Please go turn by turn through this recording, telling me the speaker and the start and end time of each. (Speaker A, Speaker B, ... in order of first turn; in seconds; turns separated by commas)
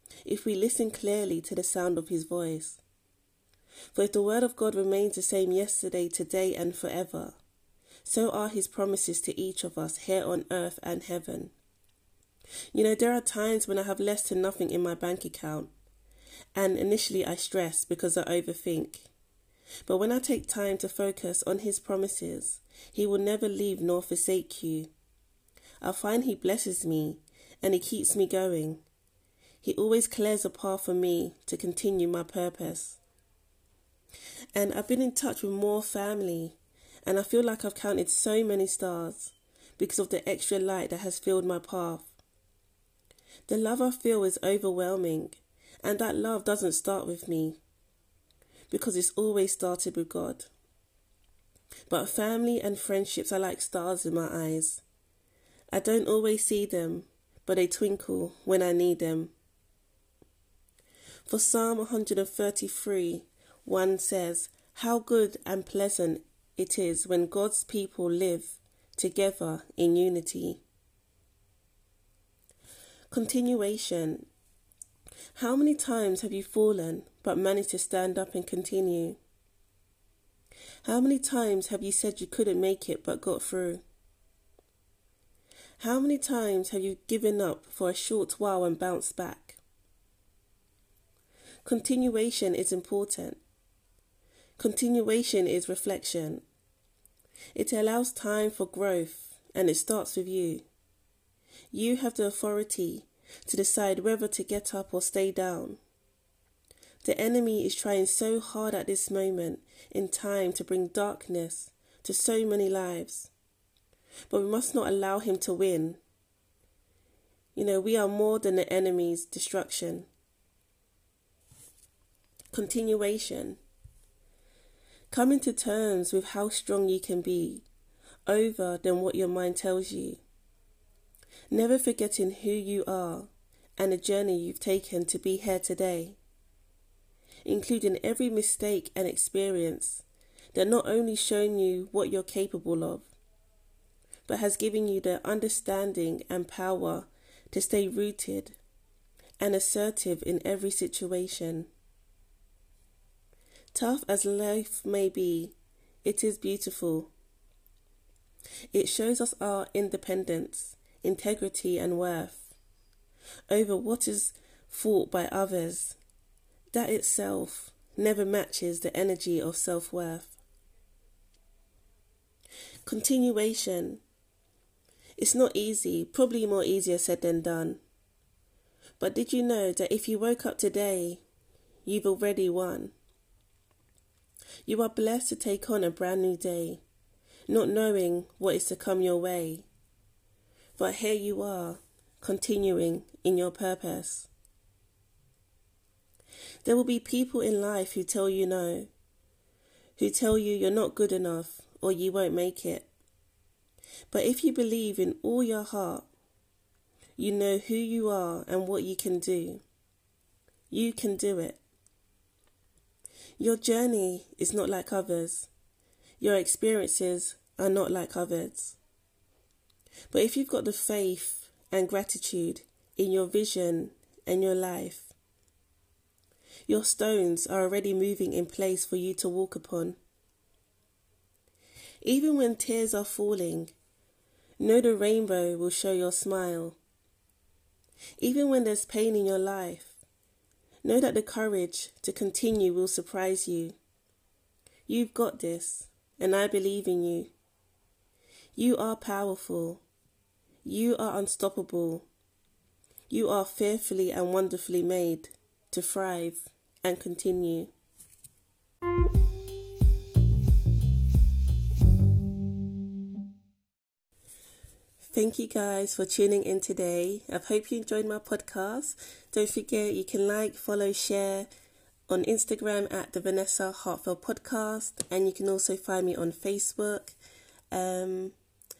Speaker A: 0.2-2.8, Speaker A: 3.9-7.4, Speaker A: 8.0-11.5, Speaker A: 12.7-15.7, Speaker A: 16.5-19.1, Speaker A: 19.8-24.9, Speaker A: 25.8-28.8, Speaker A: 29.6-33.0, Speaker A: 34.5-42.1, Speaker A: 43.5-47.6, Speaker A: 48.7-50.5, Speaker A: 51.9-54.8, Speaker A: 55.7-59.3, Speaker A: 61.2-70.6, Speaker A: 73.1-74.3, Speaker A: 75.3-79.2, Speaker A: 80.8-83.8, Speaker A: 85.8-89.6, Speaker A: 91.6-93.4, Speaker A: 94.6-96.4, Speaker A: 97.5-100.6, Speaker A: 101.7-105.8, Speaker A: 107.0-113.3, Speaker A: 114.3-116.0, Speaker A: 117.5-120.1, Speaker A: 122.5-123.6, Speaker A: 125.1-127.7, Speaker A: 128.2-130.2, Speaker A: 131.5-136.2, Speaker A: 137.4-143.1, Speaker A: 144.3-148.6, Speaker A: 149.4-151.7, Speaker A: 153.7-157.1, Speaker A: 158.7-162.6, Speaker A: 163.5-166.0, Speaker A: 166.7-170.4, Speaker A: 172.8-174.0, Speaker A: 175.2-177.8, Speaker A: 179.0-181.2, Speaker A: 181.8-182.9, Speaker A: 184.7-186.8, Speaker A: 187.5-189.7, Speaker A: 190.8-194.3, Speaker A: 196.6-198.9, Speaker A: 200.0-202.9, Speaker A: 204.1-206.1, Speaker A: 207.2-209.6, Speaker A: 210.7-211.6, Speaker A: 213.4-215.5, Speaker A: 216.2-218.8, Speaker A: 220.1-225.1, Speaker A: 226.7-230.0, Speaker A: 232.0-233.7, Speaker A: 234.6-236.8, Speaker A: 238.2-240.0, Speaker A: 240.8-243.8, Speaker A: 244.9-247.3, Speaker A: 248.6-249.8, Speaker A: 250.6-252.1, Speaker A: 253.1-257.7, Speaker A: 265.1-271.5, Speaker A: 272.1-277.1, Speaker A: 277.7-278.3